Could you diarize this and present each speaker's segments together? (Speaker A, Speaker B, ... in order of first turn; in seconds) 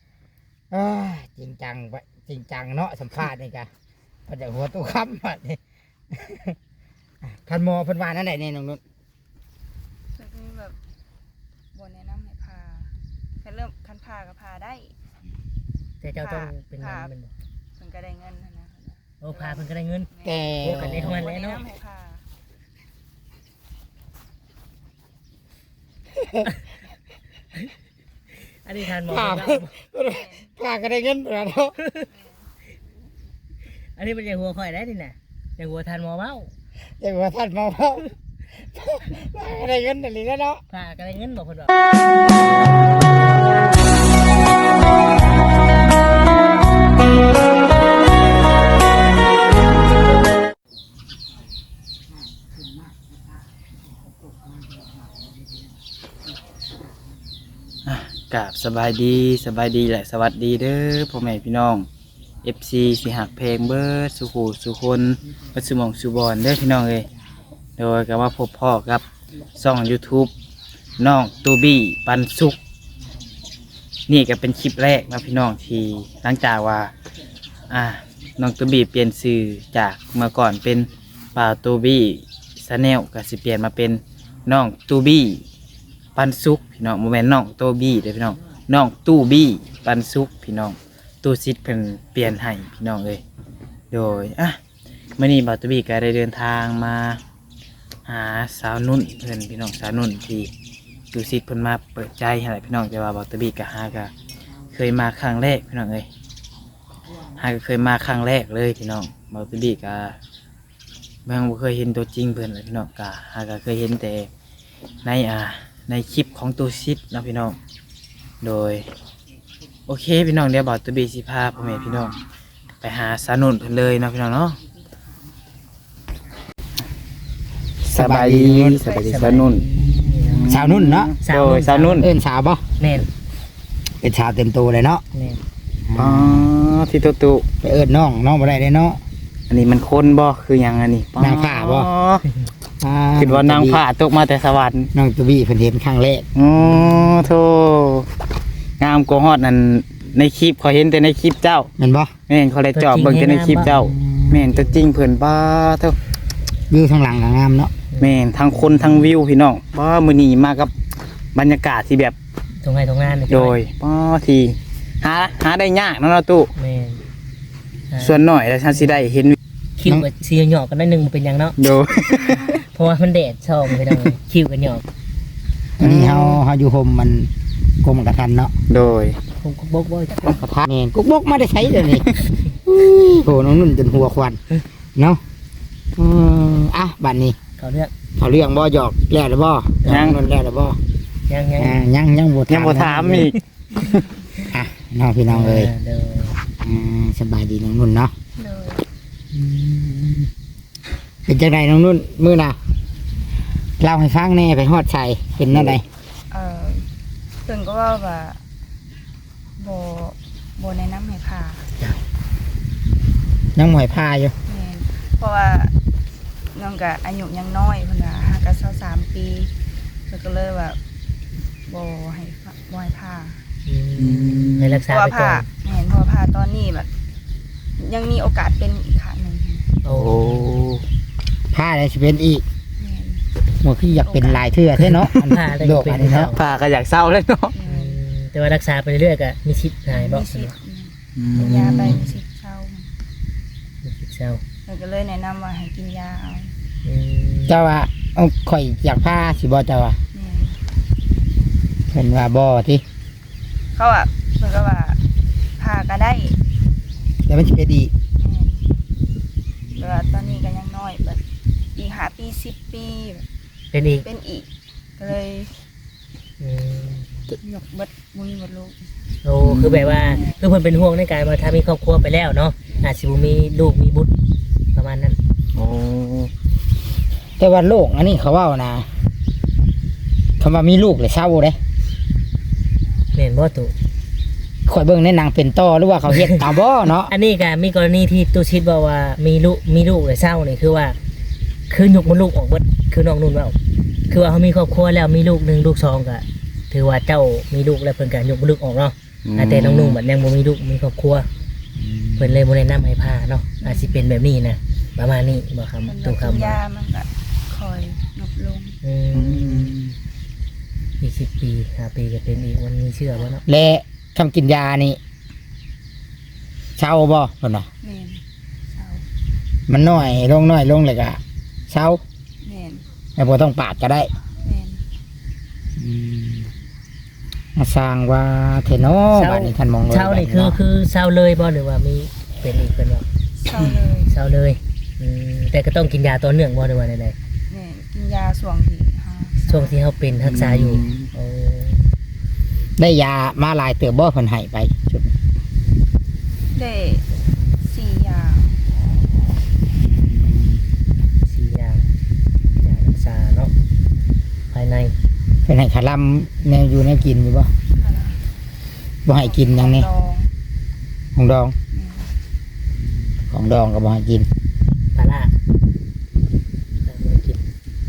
Speaker A: 0.7-3.7, 4.3-5.6, 6.1-6.6, 7.2-8.8, 20.2-21.3, 26.1-26.5, 29.0-31.8, 37.0-40.6, 127.9-128.8, 130.5-131.1, 132.0-132.6, 134.0-135.0, 135.9-136.5, 137.6-139.0, 141.2-141.9, 142.8-143.8, 144.9-146.2, 151.8-152.1, 153.7-154.5, 156.7-157.7, 175.8-177.3, 177.8-178.5, 180.3-182.1, 182.6-184.4, 184.9-185.2, 185.9-187.4, 188.2-190.8, 191.6-193.3, 194.4-195.7, 196.6-198.1, 199.3-200.3, 201.2-202.6, 203.8-205.8, 213.6-214.3, 231.5-232.4, 233.6-236.3, 247.5-250.0, 251.9-252.8, 257.3-257.9, 277.4-278.9, 280.4-281.6, 284.7-287.1, 301.8-302.2, 313.5-315.0, 316.8-317.7, 319.7-322.0, 323.2-324.1, 325.8-326.5, 327.6-330.6, 340.2-341.0, 342.8-345.1, 349.8-350.6, 355.4-357.5, 359.1-359.9, 361.1-361.5, 363.2-364.3
Speaker B: 10.1-10.8, 11.7-14.9, 16.2-17.1, 17.8-22.2, 30.0-30.5, 32.1-32.4, 128.7-129.3, 180.1-180.4, 198.3-198.8, 206.3-206.8, 207.4-208.4, 209.6-211.6, 214.5-215.7, 216.5-219.5, 220.1-220.8, 221.7-223.4, 224.8-226.9, 227.8-229.8, 232.8-233.2, 234.0-234.4, 237.5-238.0, 239.9-242.9, 244.7-246.5, 250.1-250.6, 253.7-255.0, 255.6-256.4, 258.2-258.6, 259.7-261.2, 261.8-263.2, 264.0-265.5, 267.4-268.9, 270.0-270.4, 303.6-304.0, 305.9-308.8, 317.8-318.2, 318.7-319.0, 322.4-322.8, 324.4-324.8, 333.4-334.1, 337.5-339.8, 346.5-347.0, 347.6-348.6, 357.8-358.2, 359.1-360.3, 361.7-362.1
Speaker C: 16.0-17.3, 19.2-20.1, 20.6-21.6, 28.6-29.7, 31.8-32.1, 34.0-36.5, 40.7-41.7, 128.9-130.5, 131.2-132.1, 132.8-133.1, 135.1-135.4, 152.7-153.7, 157.9-158.2, 162.6-163.6, 166.6-167.0, 167.9-168.2, 169.8-171.6, 172.5-174.8, 179.4-180.4, 187.6-187.9, 191.3-191.8, 195.3-196.4, 223.7-225.5, 229.8-230.6, 235.2-236.4, 237.6-240.5, 241.4-242.0, 243.8-244.4, 246.8-247.6, 263.7-264.0, 266.4-267.1, 269.2-274.1, 274.7-275.2, 283.1-283.7, 286.1-286.4, 287.0-290.9, 291.7-293.6, 294.1-301.3, 302.2-306.6, 308.8-309.7, 311.0-313.4, 329.1-333.0, 334.1-337.1, 339.5-341.9, 351.2-351.8, 352.6-353.5, 354.5-354.9, 364.9-365.3, 366.8-367.4
Speaker D: 57.9-61.9, 62.4-67.1, 67.8-69.0, 69.5-70.3, 71.0-72.6, 74.1-76.9, 77.7-85.4, 86.2-93.2, 93.9-94.6, 95.2-97.2, 98.0-100.5, 101.1-104.1, 104.7-106.1, 107.4-110.2, 111.2-114.3, 115.0-117.5, 118.4-118.8, 119.9-122.2, 122.8-124.6, 127.8-132.1, 135.9-137.4, 139.5-142.2, 143.2-144.9, 146.3-148.1, 148.8-151.7, 152.3-155.9, 158.0-160.7, 161.3-162.1, 163.3-166.5, 168.0-169.4, 171.6-172.4, 178.7-179.2, 189.8-190.2, 192.5-193.3, 224.0-224.8, 229.9-230.8, 234.8-235.3, 236.3-237.6, 241.2-242.1, 269.4-270.0, 275.5-276.3, 299.2-300.0, 309.1-309.9